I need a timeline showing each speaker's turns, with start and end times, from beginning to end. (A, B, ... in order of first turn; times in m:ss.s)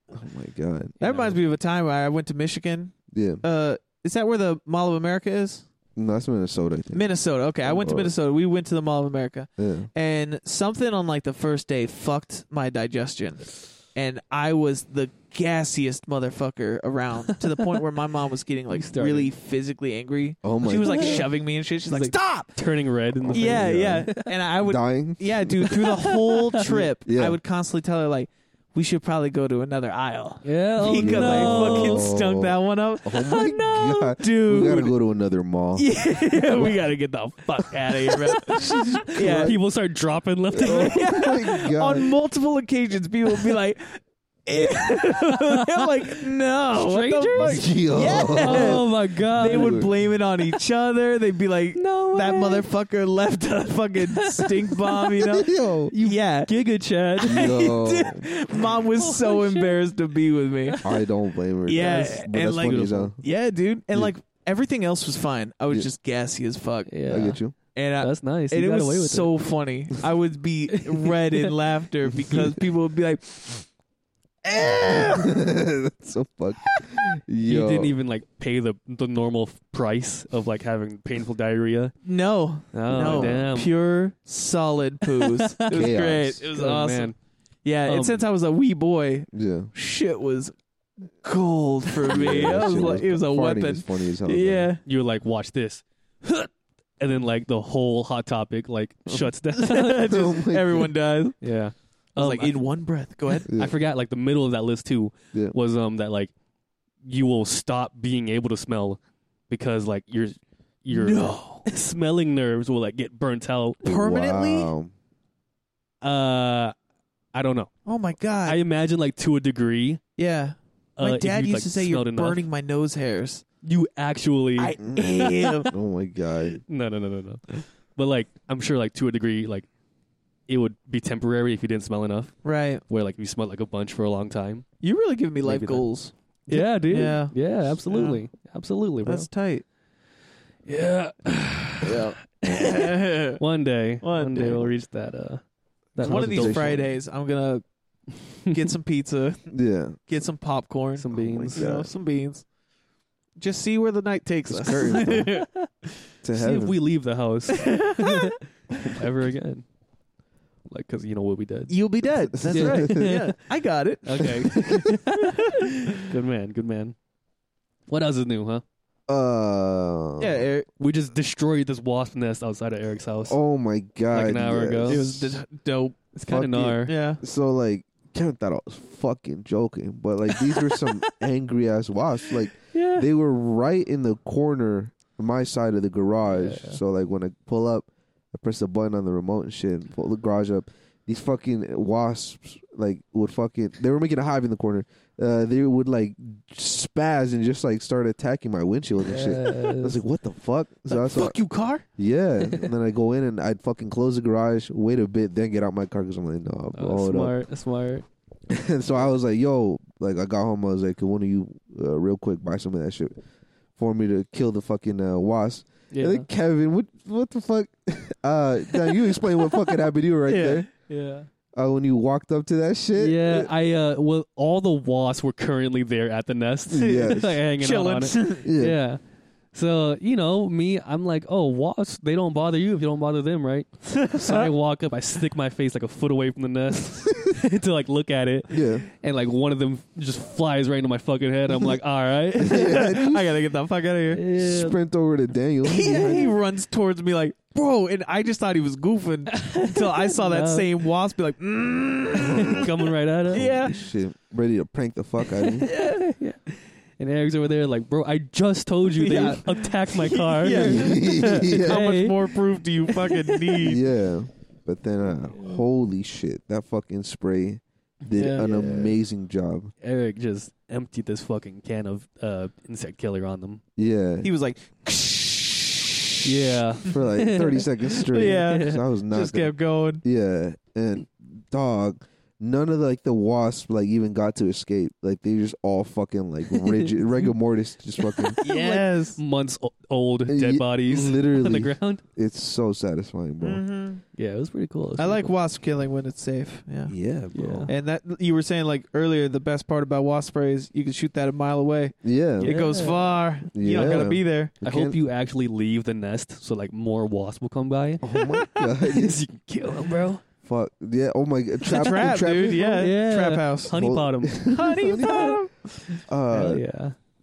0:00.1-0:01.0 A
0:01.0-0:01.4 B
0:01.0-0:05.7 C
0:03.1-0:03.4 A
0:06.0-0:07.0 A
0:06.9-0:22.6 C
0:07.6-0:08.1 A
0:09.6-0:09.9 A
0:18.8-0:19.3 B
0:20.4-0:21.3 A
0:20.8-0:21.3 B
0:21.9-0:24.3 B
0:23.2-0:24.1 A
0:23.3-0:34.9 C
0:24.6-0:25.8 A
0:25.7-0:26.4 B
0:26.6-0:27.4 A
0:30.4-0:32.1 B
0:30.9-0:35.9 A
0:35.8-0:39.6 C
0:38.3-0:41.4 B
0:38.6-0:39.6 A
0:40.5-0:42.0 A
0:40.6-0:56.5 C
0:46.7-0:49.9 B
0:47.4-0:48.9 A
0:49.4-0:49.9 A
0:51.8-0:52.7 B
0:54.1-0:55.1 B
0:55.2-0:55.9 A
0:55.9-0:57.6 B
0:57.2-0:58.2 A
0:57.2-1:00.8 C
0:58.8-0:59.8 B
1:00.7-1:01.0 B
1:00.8-1:03.2 A
1:01.7-1:07.0 C
1:02.6-1:03.1 B
1:06.9-1:07.4 B
1:07.1-1:07.6 A
1:07.7-1:13.7 C
1:08.0-1:09.4 B
1:10.7-1:11.5 B
1:14.5-1:15.5 C
1:14.6-1:17.9 A
1:17.4-1:21.9 B
1:22.0-1:27.1 C
1:22.7-1:23.7 B
1:22.9-1:23.4 A
1:25.2-1:25.9 B
1:25.7-1:26.4 A
1:26.5-1:27.2 B
1:27.6-1:30.5 C
1:27.9-1:28.2 B
1:29.3-1:29.7 A
1:31.1-1:34.8 C
1:32.1-1:34.7 A
1:34.8-1:40.2 B
1:39.6-1:41.4 C
1:40.0-1:40.9 A
1:41.4-1:42.6 B
1:42.2-1:43.5 C
1:43.3-1:46.3 B
1:43.5-1:43.8 A
1:47.0-1:53.8 B
1:50.9-1:51.6 C
1:53.8-1:54.7 C
1:53.8-1:54.9 A
1:56.0-1:56.8 B
1:57.3-1:57.7 B
1:57.9-1:58.6 C
1:58.4-2:00.0 B
2:00.2-2:03.4 C
2:01.0-2:02.5 B
2:03.6-2:05.7 B
2:04.6-2:05.7 C
2:04.8-2:05.2 A
2:05.7-2:06.6 A
2:06.7-2:09.7 B
2:10.5-2:12.4 B
2:12.4-2:12.8 C
2:12.9-2:14.6 B
2:14.8-2:18.2 C
2:15.4-2:15.8 B
2:16.5-2:19.3 B
2:19.0-2:19.6 C
2:20.7-2:25.4 B
2:21.8-2:23.4 C
2:24.0-2:24.7 C
2:26.0-2:26.8 B
2:26.0-2:26.9 A
2:26.0-2:27.6 C
2:28.3-2:28.7 B
2:28.5-2:29.5 C
2:29.5-2:30.0 A
2:30.1-2:32.4 C
2:31.0-2:31.6 B
2:31.1-2:31.9 A
2:33.4-2:35.5 C
2:34.5-2:35.3 A
2:35.3-2:35.7 B
2:36.2-2:36.8 A
2:36.3-2:39.6 B
2:37.5-2:38.4 C
2:40.7-2:41.8 B
2:41.7-2:46.0 C
2:42.4-2:43.2 A
2:42.5-2:43.4 B
2:44.0-2:47.0 B
2:44.6-2:44.9 A
2:47.9-2:48.6 B
2:49.1-2:50.5 A
2:50.2-2:50.7 C
2:50.8-2:53.4 B
2:53.3-2:55.4 A
2:54.1-2:55.0 B
2:54.9-2:56.0 C
2:56.2-2:57.0 B
2:56.2-3:21.4 A
2:56.8-2:57.2 C
3:02.7-3:03.1 B
3:06.3-3:06.8 B
3:19.0-3:20.0 B
3:20.9-3:21.8 C
3:22.0-3:27.4 A
3:26.8-3:28.0 B
3:28.5-3:33.2 A
3:33.8-3:40.7 A
3:35.9-3:36.3 B
3:40.3-3:40.7 C
3:40.9-3:41.3 B
3:41.5-3:43.5 A
3:43.0-3:49.0 B
3:46.7-3:47.4 A
3:47.6-3:48.5 C
3:48.4-3:48.8 A
3:49.5-4:03.0 B
3:54.0-3:54.5 C
3:58.5-3:58.9 A
4:02.4-4:03.3 A
4:02.4-4:04.2 C
4:04.1-4:04.8 B
4:04.4-4:06.4 A
4:05.6-4:12.8 C
4:06.0-4:06.2 B
4:09.3-4:10.8 B
4:12.2-4:12.6 A
4:12.3-4:13.6 B
4:13.3-4:15.7 A
4:13.3-4:13.8 C
4:15.4-4:23.7 B
4:18.9-4:23.8 C
4:20.5-4:21.8 A
4:23.6-4:29.7 A
4:28.1-4:28.5 C
4:28.4-4:29.0 B
4:29.8-4:33.6 B
4:33.8-4:34.3 A
4:34.2-4:36.5 C
4:36.2-4:38.8 B
4:36.8-4:48.4 A
4:38.1-4:40.0 C
4:46.5-4:47.0 B
4:48.1-4:52.0 B
4:48.4-4:49.2 C
4:50.3-4:53.6 A
4:53.4-4:54.0 C
4:54.2-4:55.3 B
4:55.0-4:56.9 C
4:56.9-4:57.7 A
4:57.3-4:57.7 B
4:57.7-5:04.5 C
5:02.0-5:02.5 A
5:02.4-5:03.1 B
5:03.5-5:05.0 A
5:04.6-5:08.1 B
5:08.0-5:09.2 A
5:08.1-5:08.5 C
5:08.8-5:10.2 B
5:10.4-5:12.8 A
5:11.7-5:13.8 C
5:12.5-5:15.4 B
5:13.7-5:15.4 A
5:14.4-5:16.0 C
5:16.1-5:16.6 A
5:16.3-5:17.0 B